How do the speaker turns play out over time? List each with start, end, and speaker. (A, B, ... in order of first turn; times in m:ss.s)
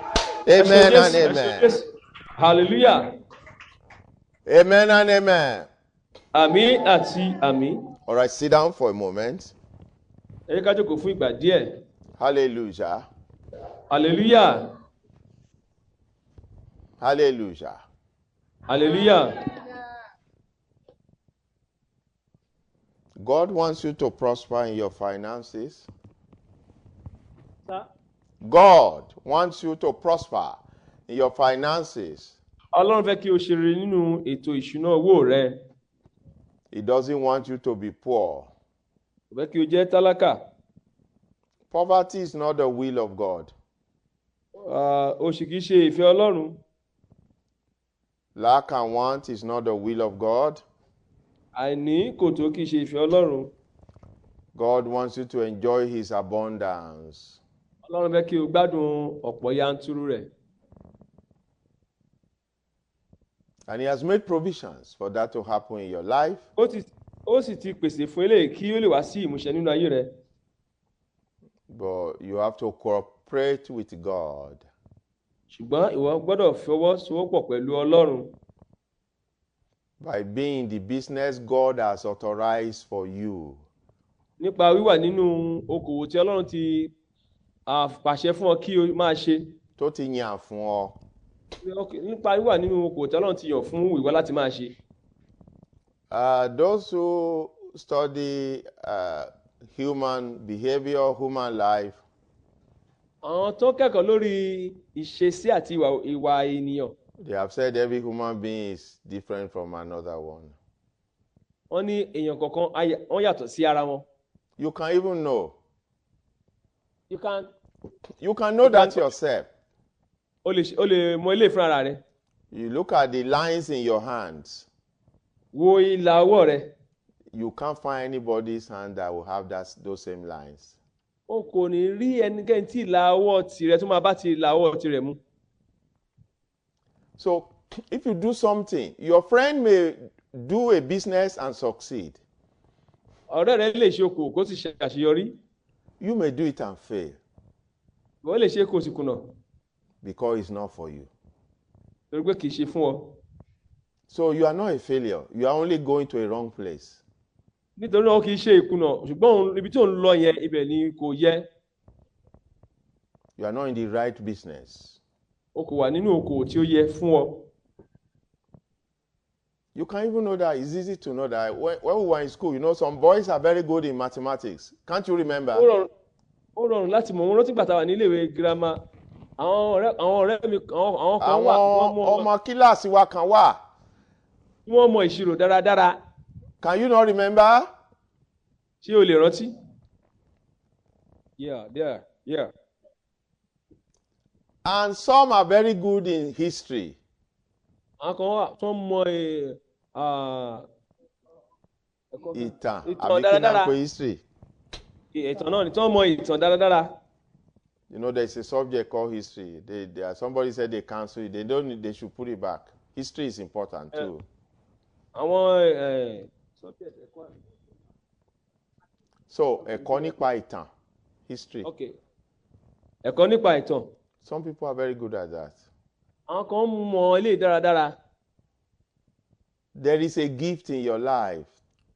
0:00.5-0:01.7 A
0:00.5-0:01.9 B
0:02.4-0:03.1 B
0:04.5-0:05.7 A
0:06.3-0:07.8 B
0:08.1-0:09.5 A
0:10.5-0:11.7 B
0:12.2-0:13.1 A
0:13.9-0:14.7 B
0:17.0-0:17.8 A
0:18.7-0:19.4 B
0:23.2-0:25.9 A
0:28.4-0:32.4 A
0:32.7-0:35.6 B
0:36.7-0:38.5 A
0:39.3-0:40.4 B
0:41.7-0:43.5 A
0:44.6-0:46.6 B
0:48.4-0:50.6 A
0:51.5-0:53.5 B
0:54.6-0:57.4 A
0:57.8-1:00.3 B
1:03.7-1:06.4 A
1:06.6-1:10.1 B
1:11.7-1:14.7 A
1:15.5-1:18.3 B
1:20.0-1:23.6 A
1:24.4-1:26.9 B
1:27.7-1:29.5 B
1:29.8-1:30.9 A
1:31.6-1:34.8 B
1:36.1-1:42.0 A
1:43.2-1:47.0 B
1:47.2-1:50.6 A
1:51.7-1:54.0 B
1:54.6-1:55.6 A
1:57.1-1:57.5 B
1:58.2-1:59.5 A
1:58.6-1:59.0 B
2:00.4-2:02.0 B
2:02.5-2:04.7 A
2:05.5-2:06.7 B
2:07.3-2:10.8 A
2:11.3-2:15.2 B
2:17.2-2:22.2 A
2:23.3-2:25.4 B
2:26.0-2:27.2 A
2:28.2-2:29.3 B
2:30.0-2:31.1 A
2:32.1-2:33.2 B
2:34.1-2:37.0 A
2:37.8-2:41.5 B
2:43.4-2:45.0 A
2:45.6-2:47.5 B
2:49.8-2:55.7 A
2:55.5-2:55.9 B
2:56.6-2:58.8 B
2:59.4-3:02.3 B
3:01.2-3:03.6 A
3:04.7-3:06.0 B
3:06.6-3:07.7 A
3:08.8-3:09.5 B
3:11.4-3:12.5 B
3:14.6-3:17.0 A
3:18.0-3:20.6 B
3:22.1-3:23.7 B
3:22.3-3:24.2 A
3:25.1-3:27.0 B
3:27.9-3:34.2 A
3:35.2-3:37.3 B
3:39.3-3:40.7 A
3:39.7-3:40.1 B
3:41.3-3:41.7 A
3:41.6-3:42.0 B
3:43.0-3:43.9 B
3:44.2-3:45.6 A
3:46.3-3:48.0 B
3:49.8-3:51.5 A